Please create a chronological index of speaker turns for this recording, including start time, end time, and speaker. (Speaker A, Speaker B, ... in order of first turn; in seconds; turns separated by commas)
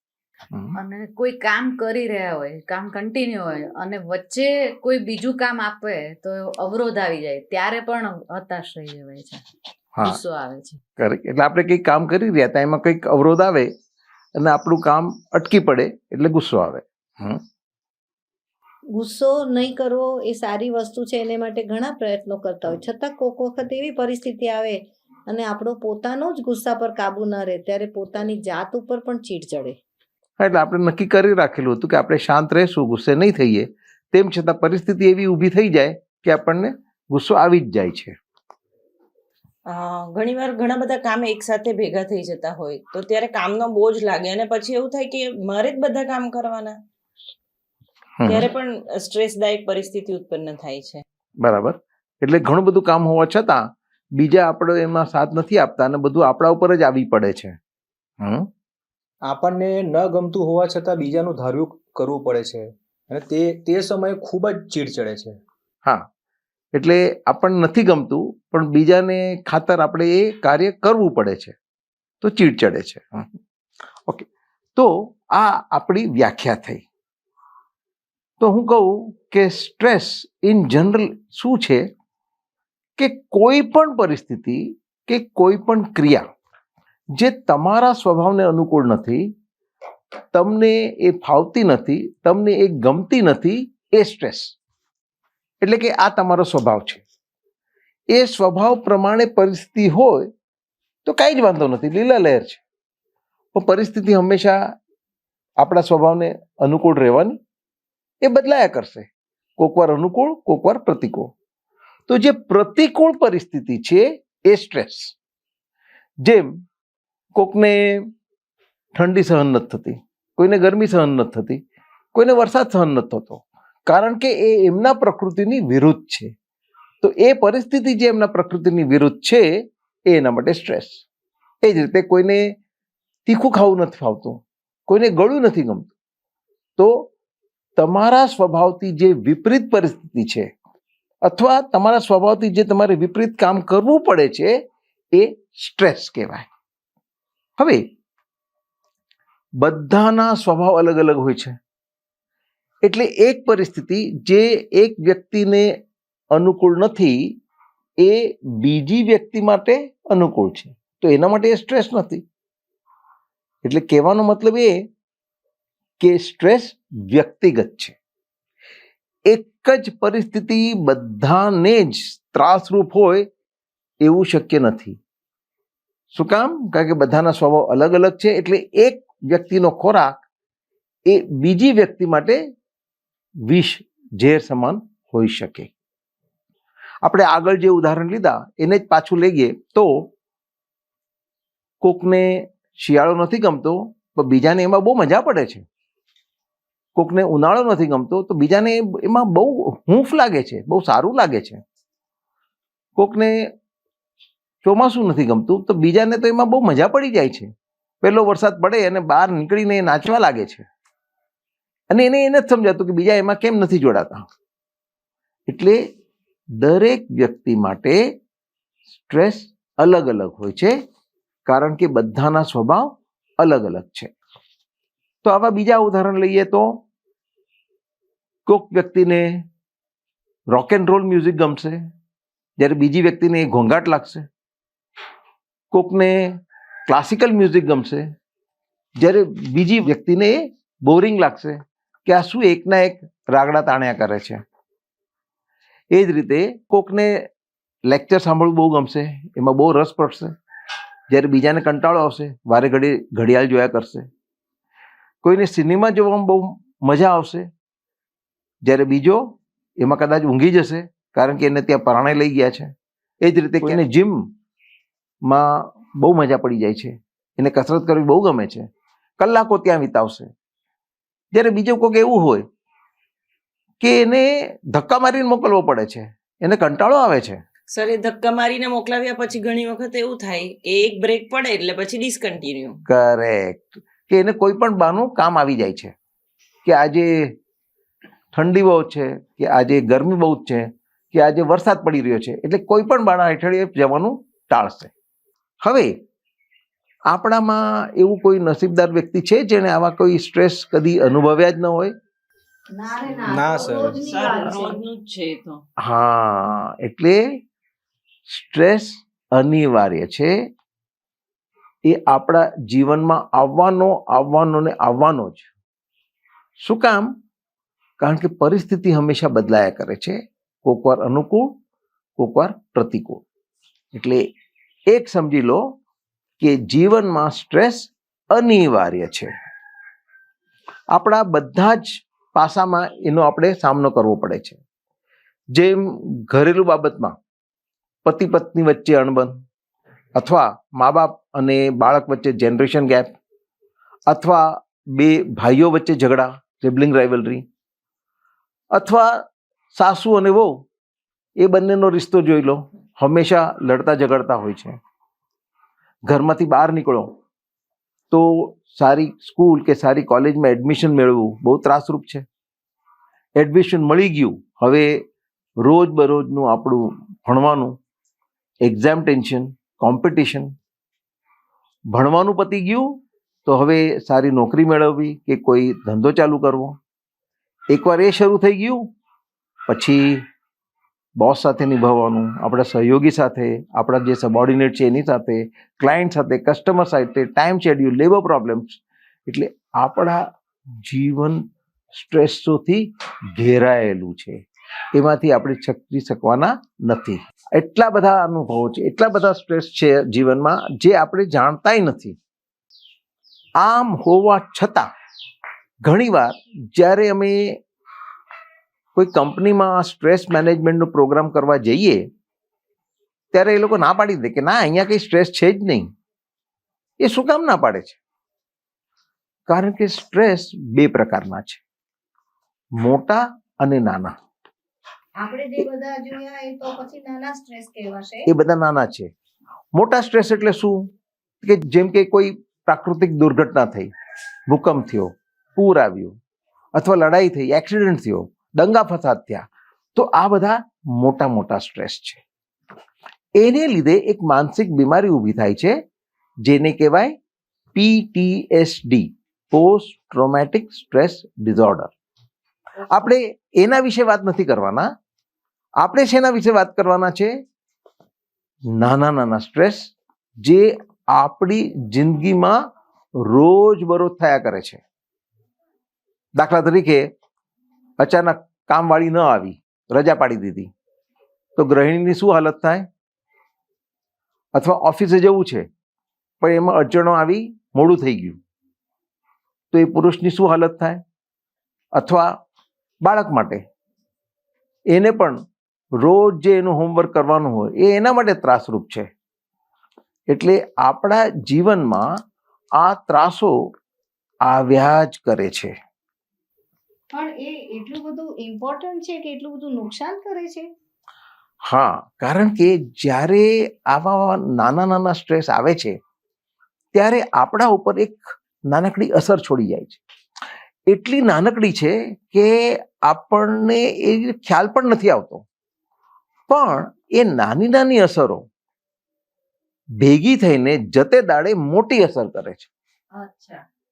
Speaker A: 0.5-0.8, Speaker B: 0.7-9.4, Speaker B: 10.0-10.8, Speaker A: 11.0-13.7, Speaker A: 14.4-17.4, Speaker C: 18.9-29.8, Speaker A: 30.4-38.1, Speaker D: 39.7-46.8, Speaker A: 48.2-48.4, Speaker D: 48.2-51.0, Speaker A: 51.4-57.6, Speaker A: 58.2-58.5, Speaker E: 59.2-65.4, Speaker A: 66.7-71.5, Speaker A: 72.2-73.3, Speaker A: 74.1-76.8, Speaker A: 78.4-81.9, Speaker A: 83.0-86.2, Speaker A: 87.1-89.3, Speaker A: 90.3-94.5, Speaker A: 95.6-97.0, Speaker A: 98.1-100.3, Speaker A: 101.0-102.6, Speaker A: 103.5-104.6, Speaker A: 105.6-107.4, Speaker A: 108.2-111.3, Speaker A: 112.1-115.1, Speaker A: 116.2-116.5, Speaker A: 117.3-118.0, Speaker A: 118.9-121.6, Speaker A: 122.1-126.3, Speaker A: 127.0-129.5, Speaker A: 130.1-131.0, Speaker A: 131.6-132.5, Speaker A: 133.2-135.9, Speaker A: 136.8-137.1, Speaker A: 137.8-140.5, Speaker A: 141.2-144.5, Speaker A: 145.1-146.5, Speaker A: 147.6-147.8, Speaker A: 149.6-151.6, Speaker A: 152.8-155.7, Speaker A: 156.3-157.2, Speaker A: 158.0-162.2, Speaker A: 163.6-164.8, Speaker A: 166.0-167.9, Speaker A: 169.3-173.2, Speaker A: 174.0-175.0, Speaker A: 176.1-180.2, Speaker A: 181.1-182.4, Speaker A: 183.4-185.7, Speaker A: 187.0-190.1, Speaker A: 191.8-195.6, Speaker A: 196.9-201.6, Speaker A: 202.9-203.5, Speaker A: 204.6-207.5, Speaker A: 208.0-210.6, Speaker A: 211.9-214.2, Speaker A: 215.5-215.8, Speaker A: 216.6-218.0, Speaker A: 218.9-220.7, Speaker A: 221.5-224.1, Speaker A: 225.2-226.8, Speaker A: 228.4-229.4, Speaker A: 230.5-231.8, Speaker A: 232.6-234.2, Speaker A: 235.7-238.1, Speaker A: 239.0-244.4, Speaker A: 245.9-247.3, Speaker A: 247.9-250.3, Speaker A: 251.1-254.1, Speaker A: 255.2-257.5, Speaker A: 258.6-262.7, Speaker A: 263.2-264.3, Speaker A: 265.2-268.7, Speaker A: 269.2-270.3, Speaker A: 271.3-272.4, Speaker A: 273.8-277.4, Speaker D: 277.7-282.8, Speaker A: 282.9-285.9, Speaker A: 286.6-287.3, Speaker A: 288.3-294.9, Speaker A: 295.6-295.9, Speaker A: 297.1-301.9, Speaker C: 302.7-304.8, Speaker E: 303.1-304.2, Speaker D: 304.0-305.6, Speaker A: 305.8-307.2, Speaker A: 308.3-310.4, Speaker A: 311.8-315.5, Speaker A: 316.6-317.1, Speaker A: 318.0-321.5, Speaker A: 322.2-323.2, Speaker A: 323.9-324.2, Speaker A: 324.9-325.6, Speaker A: 326.4-329.3, Speaker A: 330.9-334.6, Speaker A: 335.5-337.1, Speaker A: 338.0-339.4, Speaker A: 340.1-343.1, Speaker A: 344.1-347.4, Speaker A: 348.7-350.5, Speaker A: 351.4-354.8, Speaker A: 356.1-357.1, Speaker A: 358.1-362.2, Speaker A: 363.4-364.9, Speaker A: 365.6-367.8, Speaker A: 368.6-370.5, Speaker A: 371.9-372.9, Speaker A: 373.4-376.8, Speaker A: 377.7-378.8, Speaker A: 379.7-380.2, Speaker A: 381.2-390.2, Speaker A: 390.8-391.4, Speaker A: 391.9-394.4, Speaker A: 394.9-402.2, Speaker A: 403.6-404.9, Speaker A: 405.8-407.6, Speaker A: 408.9-412.0, Speaker A: 413.3-415.9, Speaker A: 417.0-418.0, Speaker A: 419.5-421.6, Speaker A: 422.8-424.1, Speaker C: 425.2-428.2, Speaker A: 428.3-429.1, Speaker A: 429.7-430.8, Speaker A: 431.4-433.9, Speaker A: 434.5-436.2, Speaker A: 436.7-442.2, Speaker A: 443.4-445.8, Speaker A: 446.4-447.1, Speaker A: 447.7-451.9, Speaker A: 452.9-454.9, Speaker A: 455.8-457.3, Speaker A: 458.7-462.6, Speaker A: 463.2-464.8, Speaker A: 466.4-467.1, Speaker A: 468.0-470.7, Speaker A: 471.6-472.9, Speaker A: 474.5-475.7, Speaker A: 476.4-478.4, Speaker A: 479.7-481.0, Speaker A: 481.9-482.3, Speaker A: 483.0-483.6, Speaker A: 484.9-485.4, Speaker A: 486.0-489.1, Speaker A: 490.3-492.1, Speaker A: 492.8-493.5, Speaker A: 494.4-495.7, Speaker C: 497.1-500.7, Speaker A: 501.6-506.0, Speaker A: 506.9-510.0, Speaker A: 510.9-515.4, Speaker A: 516.5-518.5, Speaker A: 520.0-522.7, Speaker C: 523.2-523.6